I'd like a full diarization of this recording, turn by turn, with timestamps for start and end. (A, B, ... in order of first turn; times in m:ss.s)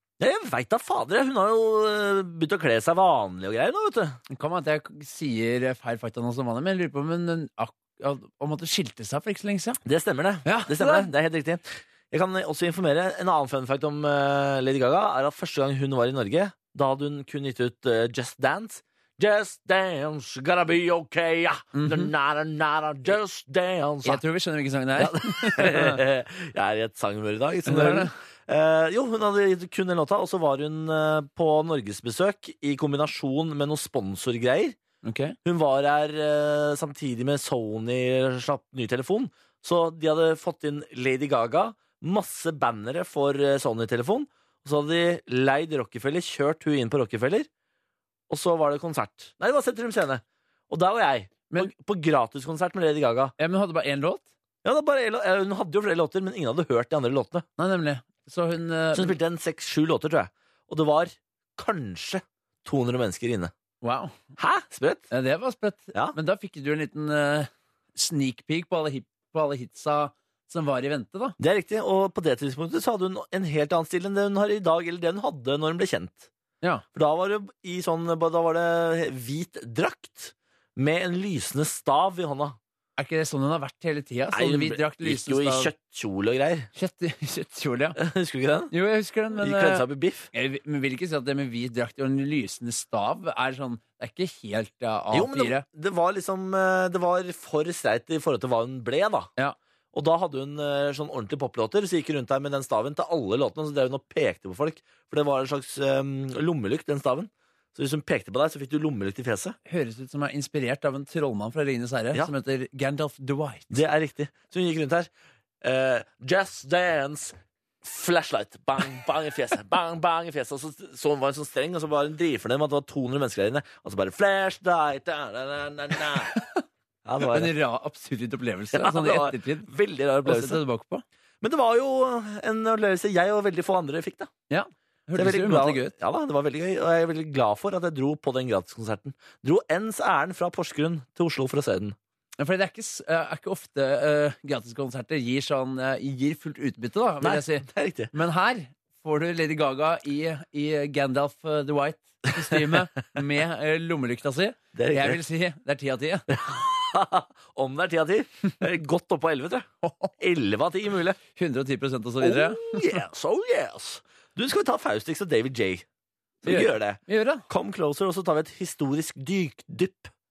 0:00.2-0:04.2 A
0:04.3-0:09.8 B
0:09.8-0:24.2 A
0:10.4-0:11.1 B
0:21.7-0:22.1 B
0:24.0-0:26.0 B
0:25.0-0:34.8 A
0:27.6-0:28.1 B
0:35.0-0:35.4 B
0:35.4-0:47.5 A
0:48.3-0:53.3 A
0:53.4-0:54.3 B
0:54.6-0:57.4 A
0:57.6-0:59.1 B
0:58.9-1:03.5 A
1:03.8-1:04.1 B
1:04.4-1:05.1 A
1:05.1-1:11.4 B
1:11.4-1:16.3 A
1:16.9-1:22.6 A
1:23.0-1:25.7 B
1:24.3-1:26.7 A
1:26.8-1:28.0 B
1:28.0-1:28.7 A
1:28.7-1:35.6 B
1:29.4-1:30.3 A
1:35.1-1:39.3 A
1:39.9-1:49.6 A
1:49.7-1:53.8 B
1:53.7-1:55.1 A
1:55.6-2:06.4 A
2:06.3-2:06.6 B
2:07.0-2:07.5 A
2:07.2-2:09.7 B
2:08.7-2:10.6 A
2:10.2-2:11.0 B
2:11.4-2:14.3 A
2:14.5-2:15.9 B
2:15.2-2:22.0 A
2:22.4-2:36.2 B
2:27.2-2:28.1 A
2:34.7-2:35.2 A
2:36.3-2:39.7 A
2:39.8-2:40.1 B
2:40.2-2:41.2 A
2:41.3-2:43.0 B
2:42.2-2:45.8 A
2:46.4-2:50.1 A
2:46.4-2:47.4 B